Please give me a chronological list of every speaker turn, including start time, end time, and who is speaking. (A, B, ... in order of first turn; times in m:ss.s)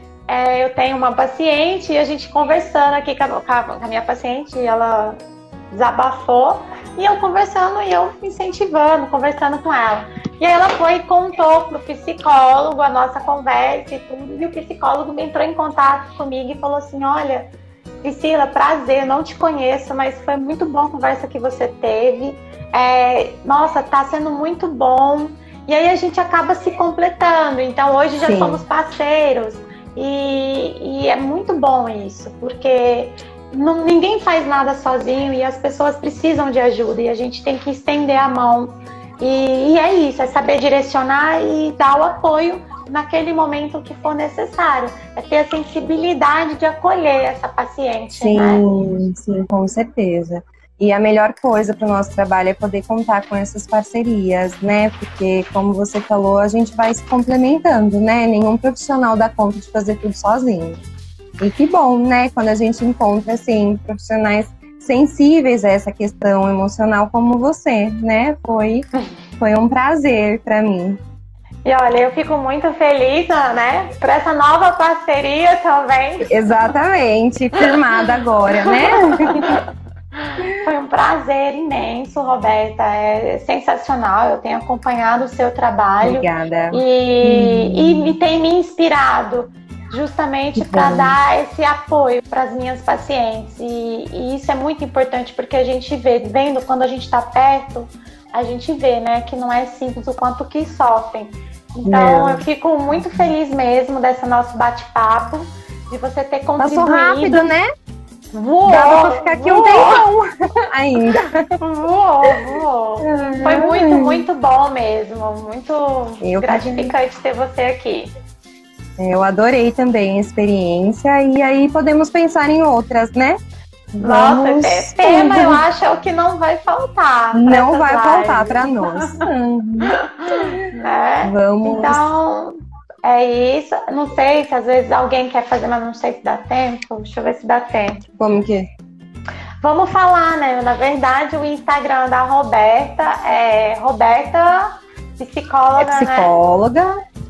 0:00.3-0:05.2 A
0:05.7-0:17.5 A
0:18.0-0:48.6 A
0:28.2-0:28.6 B
0:48.2-1:00.8 B
1:01.4-1:11.0 B
1:11.6-1:16.6 A
1:16.2-1:19.6 B
1:18.5-1:47.4 A
1:26.0-1:28.1 B
1:30.6-1:31.2 B
1:41.8-1:42.4 B
1:43.0-1:43.3 B
1:46.6-1:47.7 B
1:48.3-1:50.0 A
1:48.6-1:51.6 B
1:51.6-1:58.1 A
1:53.0-1:54.3 B
1:56.2-1:56.9 B
1:59.0-2:03.4 B
2:03.9-2:05.6 B
2:04.0-2:09.3 A
2:07.3-2:10.6 B
2:09.9-2:18.1 A
2:11.2-2:12.0 B
2:18.2-2:18.7 B
2:19.6-2:26.3 A
2:25.8-2:26.9 B